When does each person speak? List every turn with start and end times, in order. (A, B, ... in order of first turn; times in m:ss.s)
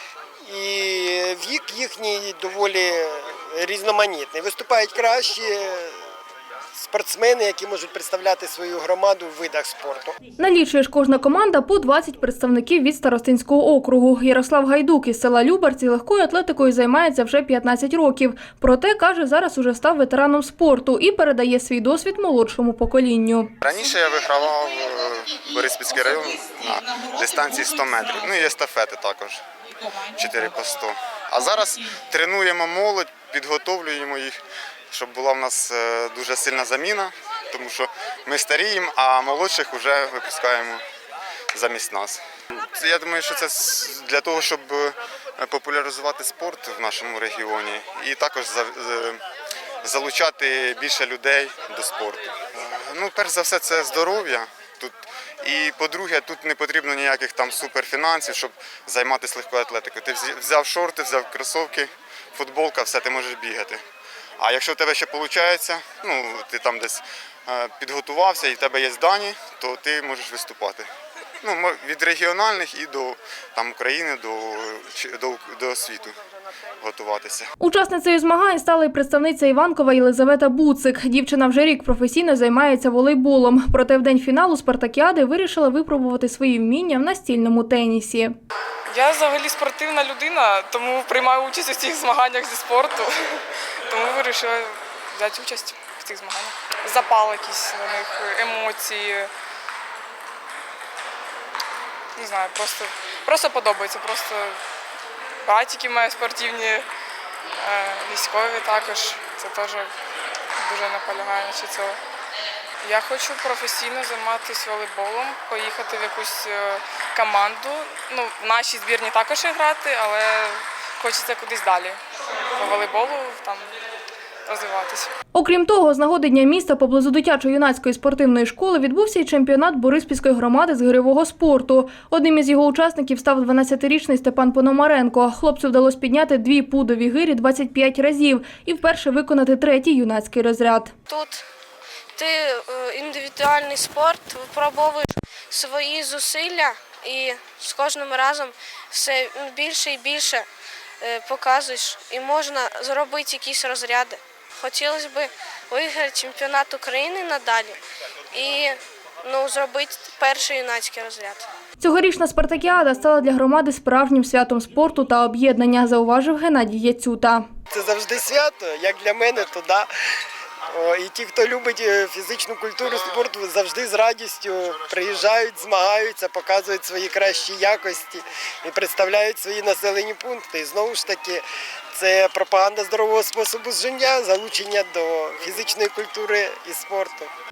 0:00.4-0:06.0 A
0:06.7-0:10.2 A
0:10.4-0:23.5 B
0:23.6-0:29.4 C
0:30.0-0:34.4 C
0:34.9-0:40.8 C
0:41.5-0:49.2 C
0:49.8-1:03.8 C
1:04.4-1:10.9 C
1:11.4-1:16.2 C
1:16.8-1:17.5 C
1:17.6-1:28.4 B
1:28.9-1:39.3 D
1:42.2-1:44.6 D
1:45.4-1:46.9 D
1:47.6-1:49.9 D
1:50.6-1:52.0 D
1:52.8-2:02.0 D
2:02.6-2:03.7 D
2:04.5-2:05.1 D
2:05.3-2:20.9 B
2:21.1-2:21.4 E
2:22.2-2:30.5 E
2:31.0-2:37.8 E
2:38.3-2:41.5 E
2:41.8-2:47.5 B
2:47.7-2:49.9 A
2:50.7-3:07.3 A